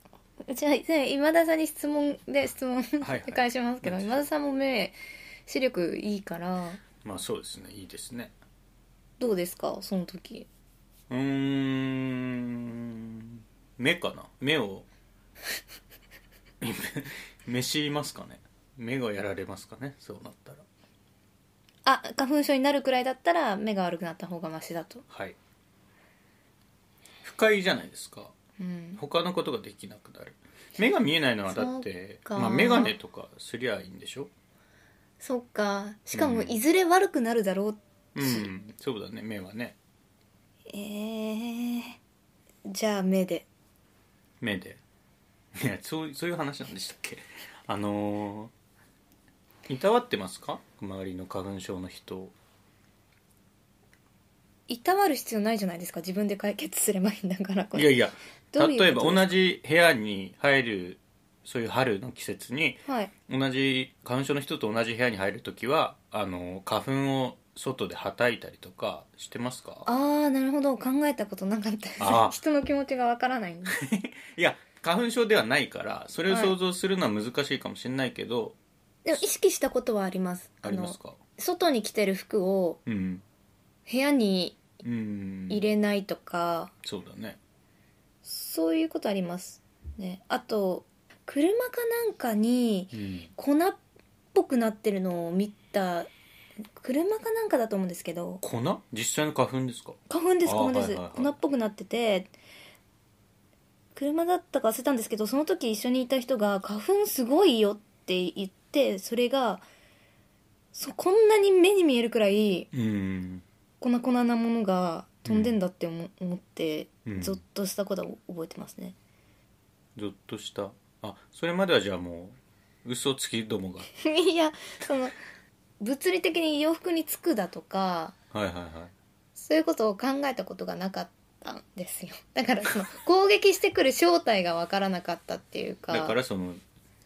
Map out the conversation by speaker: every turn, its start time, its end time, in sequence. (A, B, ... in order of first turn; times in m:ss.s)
0:00.4-0:06.8 A
0:03.0-0:04.3 B
0:07.0-0:08.3 B
0:09.2-0:10.5 A
0:11.1-0:14.9 B
0:16.6-0:20.6 B
0:21.8-0:25.0 A
0:25.1-0:25.4 B
0:27.2-0:28.3 B
0:28.6-0:29.0 A
0:29.0-0:34.3 B
0:31.5-0:32.9 A
0:35.2-0:38.5 A
0:36.1-0:36.6 B
0:38.2-0:39.8 B
0:40.7-0:42.0 A
0:42.7-0:43.5 A
0:44.4-0:44.8 B
0:45.6-0:48.5 B
0:49.7-0:52.3 B
0:54.7-0:58.0 A
0:57.7-1:09.9 B
0:58.5-0:59.4 A
1:02.8-1:03.1 A
1:09.8-1:13.7 A
1:12.0-1:12.4 B
1:13.6-1:18.6 B
1:16.3-1:16.6 A
1:19.0-1:22.8 A
1:20.6-1:21.2 B
1:22.8-1:23.2 B
1:23.9-1:24.6 A
1:24.8-1:25.6 B
1:25.5-1:26.7 A
1:26.8-1:27.4 B
1:28.2-1:33.8 A
1:32.9-1:33.3 B
1:34.3-1:36.1 A
1:36.8-1:38.4 A
1:38.4-1:41.3 B
1:40.1-1:42.3 A
1:44.0-1:49.6 A
1:50.7-1:52.7 A
1:52.7-1:53.4 B
1:53.8-1:59.0 A
1:55.2-1:55.5 B
1:57.0-1:57.4 B
2:00.0-2:03.9 B
2:04.0-2:05.2 A
2:05.8-2:08.1 A
2:08.3-2:08.9 B
2:09.4-2:16.2 A
2:15.9-2:16.6 B